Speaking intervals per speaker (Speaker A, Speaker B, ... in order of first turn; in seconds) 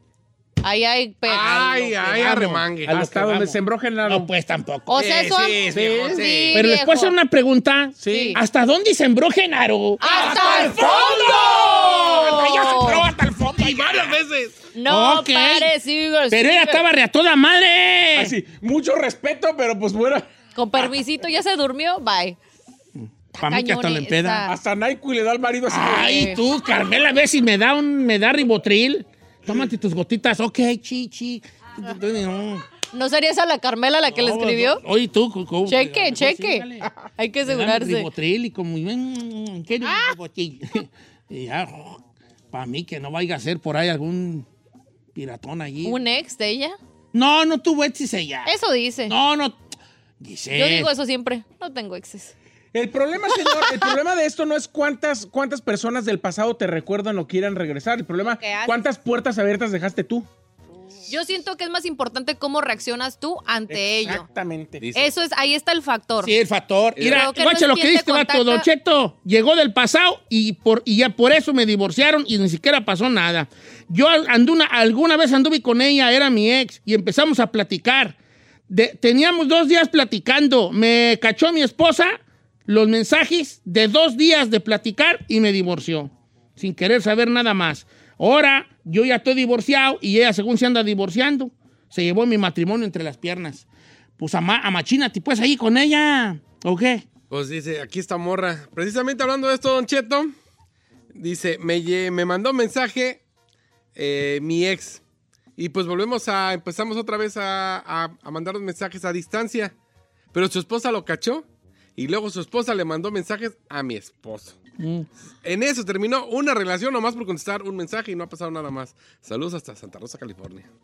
Speaker A: 0.6-1.9, 4.9-7.2, 8.1-8.4, 10.0-13.0, 14.7-16.8, 20.5-22.4, 23.3-24.5, 25.9-26.4, 32.9-34.8, 35.7-38.1, 45.8-46.8, 48.4-49.1, 50.5-52.3, 53.5-53.9, 58.2-58.8, 61.1-64.2, 64.9-66.3, 67.0-68.7
Speaker B: 1.2-2.9, 5.0-6.6, 10.5-12.4, 13.6-14.6, 64.8-65.1, 67.0-67.3, 97.3-100.3, 101.1-103.2, 104.0-105.0, 105.6-109.7, 110.3-111.4, 112.0-114.5, 115.4-120.7
Speaker C: 1.4-5.0, 6.5-14.2, 14.9-15.7, 16.3-18.4, 22.9-24.4, 25.7-32.6, 34.1-36.9, 37.4-44.5, 45.1-46.0, 47.1-48.5, 49.1-49.6, 50.2-50.9, 66.2-78.2, 78.7-93.7, 94.2-97.0, 114.8-115.1
Speaker D: 2.9-4.3, 5.7-6.3, 8.0-8.4, 10.3-10.9, 18.1-20.3, 24.4-26.2, 52.7-60.3, 63.7-64.8